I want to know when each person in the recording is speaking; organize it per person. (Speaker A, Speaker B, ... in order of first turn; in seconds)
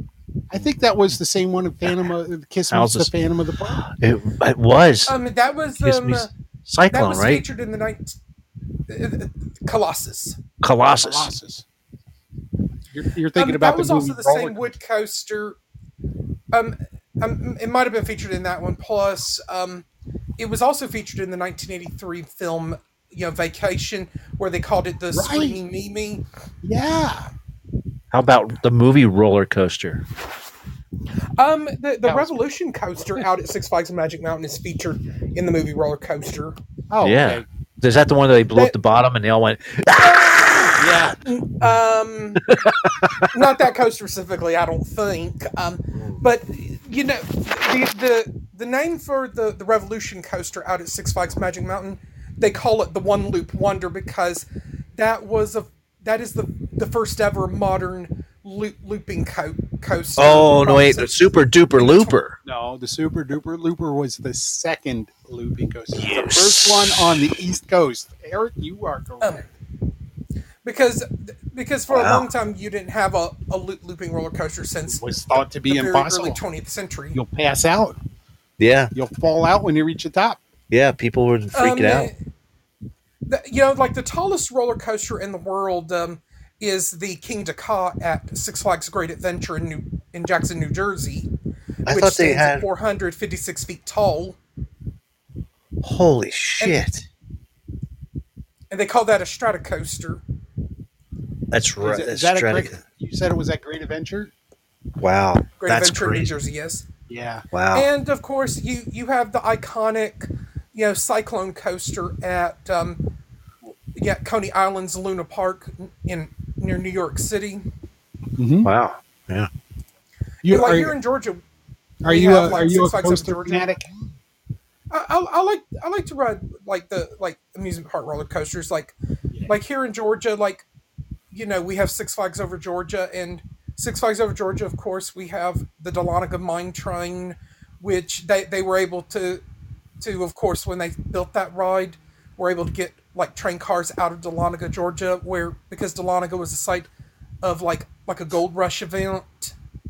Speaker A: 0.5-3.8, 11.0-11.6, 12.9-14.7, 25.1-25.6, 26.6-27.3, 32.0-32.4, 36.9-37.5, 40.8-41.2, 62.5-69.5, 74.9-76.4, 77.1-78.0, 78.9-80.4, 101.8-104.3, 107.1-107.5, 118.4-118.7, 120.4-120.9, 122.0-123.9
Speaker B: 2.7-3.1, 3.7-5.2, 5.8-7.5, 10.6-11.3, 28.1-30.0, 37.0-40.9, 42.4-43.3, 60.2-62.4, 65.9-67.3, 71.9-72.3, 78.6-78.9, 80.7-82.1, 91.9-92.7, 95.8-97.1, 101.5-102.8, 105.0-106.3, 107.5-107.9, 118.6-119.5
Speaker C: 5.1-6.3, 6.9-8.2, 8.9-10.4, 13.3-15.6, 16.5-19.9, 20.4-26.2, 31.4-36.5, 40.2-40.7, 41.2-42.4, 43.3-62.2, 70.6-77.2, 81.5-82.2, 83.3-91.3, 91.9-94.4, 98.7-100.2, 105.6-106.9, 107.7-113.1, 114.0-117.7, 120.5-121.4, 122.0-123.7, 124.9-129.0, 129.5-130.7, 131.3-139.4, 140.0-146.9, 147.4-149.5